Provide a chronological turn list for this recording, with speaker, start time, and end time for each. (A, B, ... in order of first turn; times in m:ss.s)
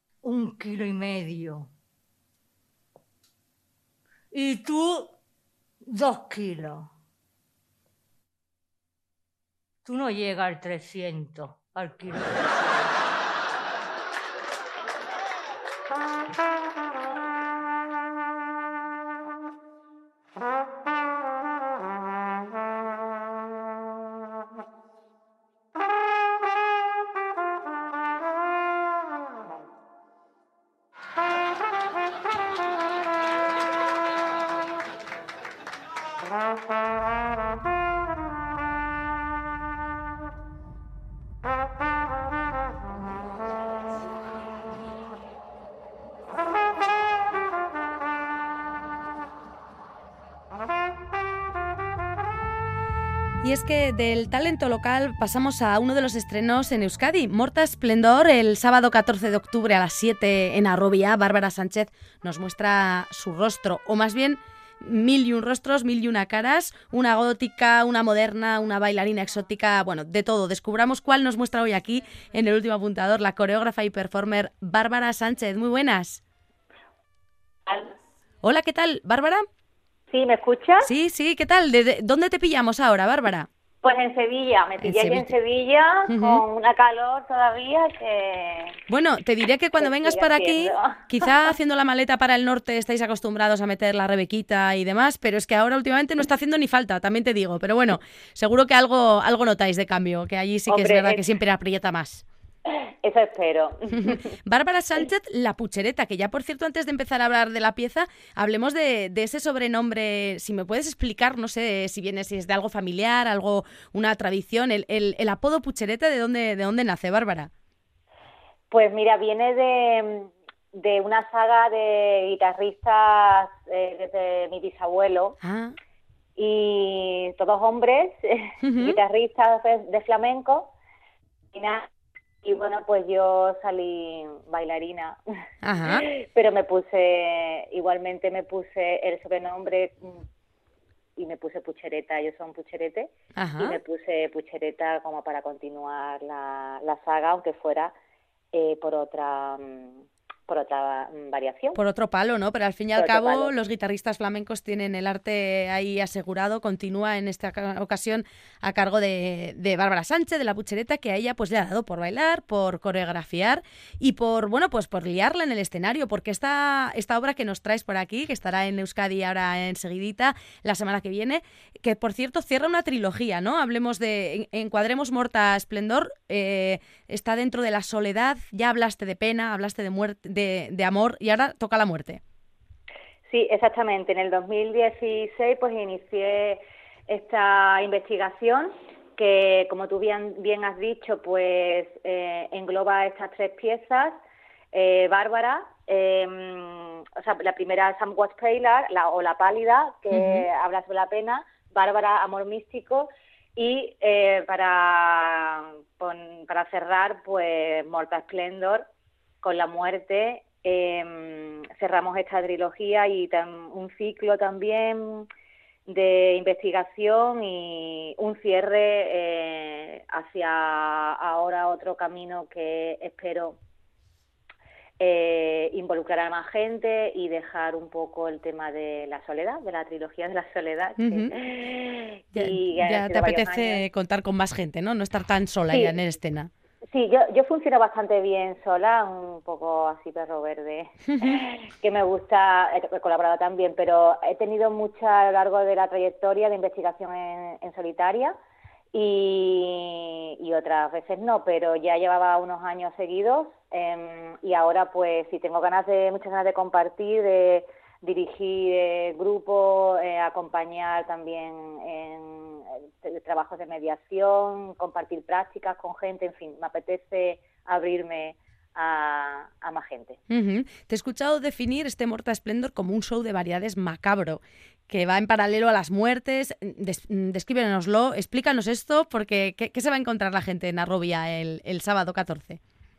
0:00.2-0:01.7 A
0:04.3-0:05.1 A
0:05.8-0:06.9 A
0:09.8-0:12.9 A
0:53.4-1:16.2 B
1:17.7-1:17.9 C
1:18.4-1:19.4 B
1:20.1-1:20.9 C
1:20.8-1:23.5 B
1:23.8-1:28.8 C
1:24.8-1:25.3 B
1:26.1-1:26.4 B
1:28.9-1:42.2 B
1:29.8-1:31.4 C
1:40.7-1:41.2 C
1:42.6-1:44.4 C
1:43.9-1:57.5 B
1:58.7-2:05.4 C
2:05.4-2:05.7 B
2:06.4-2:10.7 C
2:08.6-2:09.0 B
2:11.5-2:11.9 C
2:12.4-2:15.2 C
2:15.6-2:16.0 B
2:15.8-2:20.2 C
2:21.2-2:27.9 C
2:23.4-2:23.8 B
2:28.5-2:31.8 C
2:31.7-3:02.2 B
2:33.0-2:33.6 C
3:03.2-3:14.2 C
3:14.7-3:28.8 C
3:20.1-3:20.4 B
3:29.4-3:35.3 C
3:35.8-3:43.6 C
3:45.0-3:53.8 C
3:51.0-3:51.3 B
3:52.3-3:56.5 B
3:55.7-3:56.0 C
3:56.9-4:08.3 C
4:08.9-4:30.2 C
4:30.3-4:42.6 B